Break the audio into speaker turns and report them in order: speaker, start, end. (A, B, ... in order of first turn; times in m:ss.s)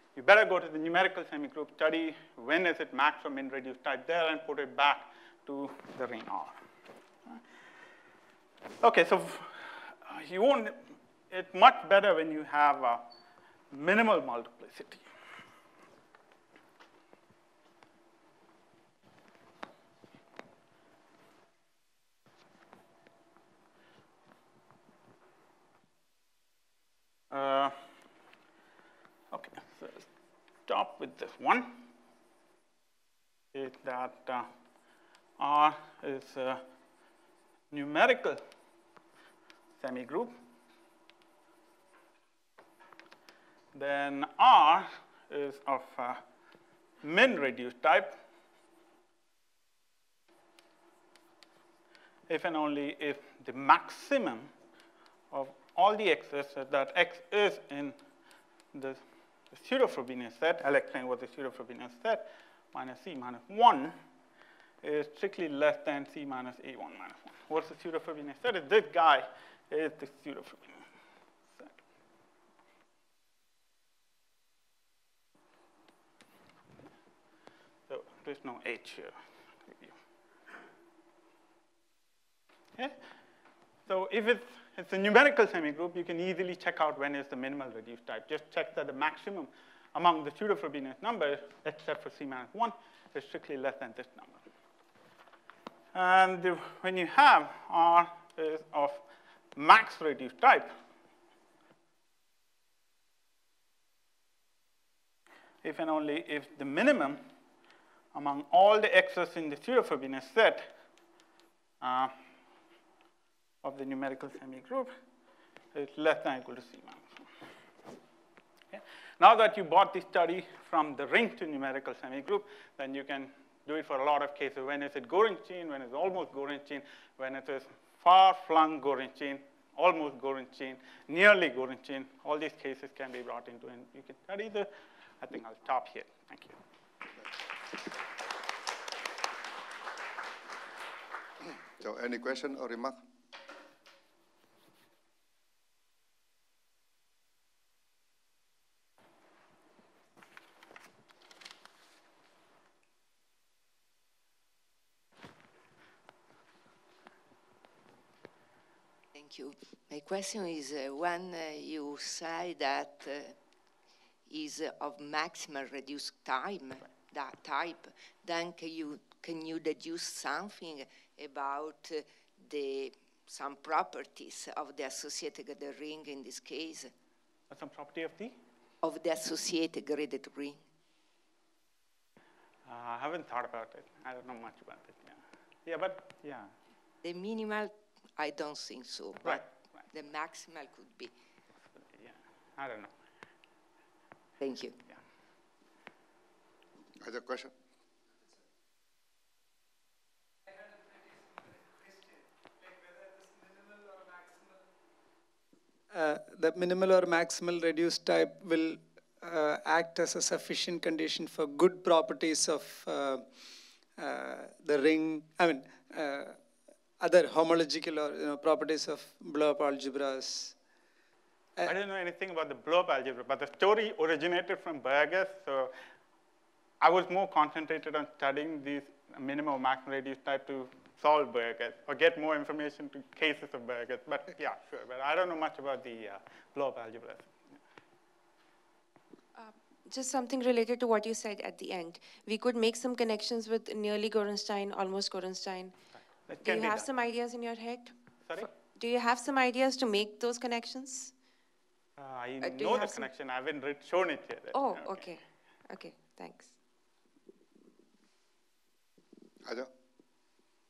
0:00.1-0:06.6 A
0:08.8-0:13.0 A
0:13.7-0:15.0 A
0:27.3-0:27.8 A
0:29.3-0:30.1 A
0:30.6-0:31.8 A
0:33.5-0:34.5 A
0:35.4-0:36.6 A
0:37.7-0:38.4 A
0:39.8-0:40.3 A
0:43.7-0:46.2 A
0:47.0-0:48.2 A
0:52.3-0:54.5 A
0:55.3-0:58.0 A
0:58.7-1:04.0 A
1:04.8-1:10.8 A
1:17.9-1:20.0 A
1:23.9-1:34.4 A
1:35.9-1:39.0 A
1:39.6-1:40.7 A
1:45.6-1:47.2 A
1:48.1-1:50.7 A
1:51.8-1:52.1 A
1:53.6-1:54.9 A
1:55.7-1:57.2 A
1:58.7-2:14.7 A
2:15.2-2:16.6 A
2:21.8-2:23.0 B
2:39.1-2:43.4 C
2:44.3-2:56.9 C
2:57.5-2:58.4 A
2:58.8-3:00.6 C
3:02.6-3:06.5 A
3:07.0-3:11.1 C
3:11.8-3:12.9 A
3:14.4-3:14.8 C
3:17.0-3:17.5 B
3:25.9-3:33.3 D
3:34.0-3:36.4 D
3:37.0-3:40.6 D
3:41.6-3:45.7 A
3:46.8-3:57.6 A
3:59.4-4:05.7 E
4:06.2-4:06.9 A
4:06.4-4:11.1 E
4:12.0-4:15.1 A
4:12.4-4:13.1 E
4:14.5-4:16.5 E
4:19.4-4:19.7 B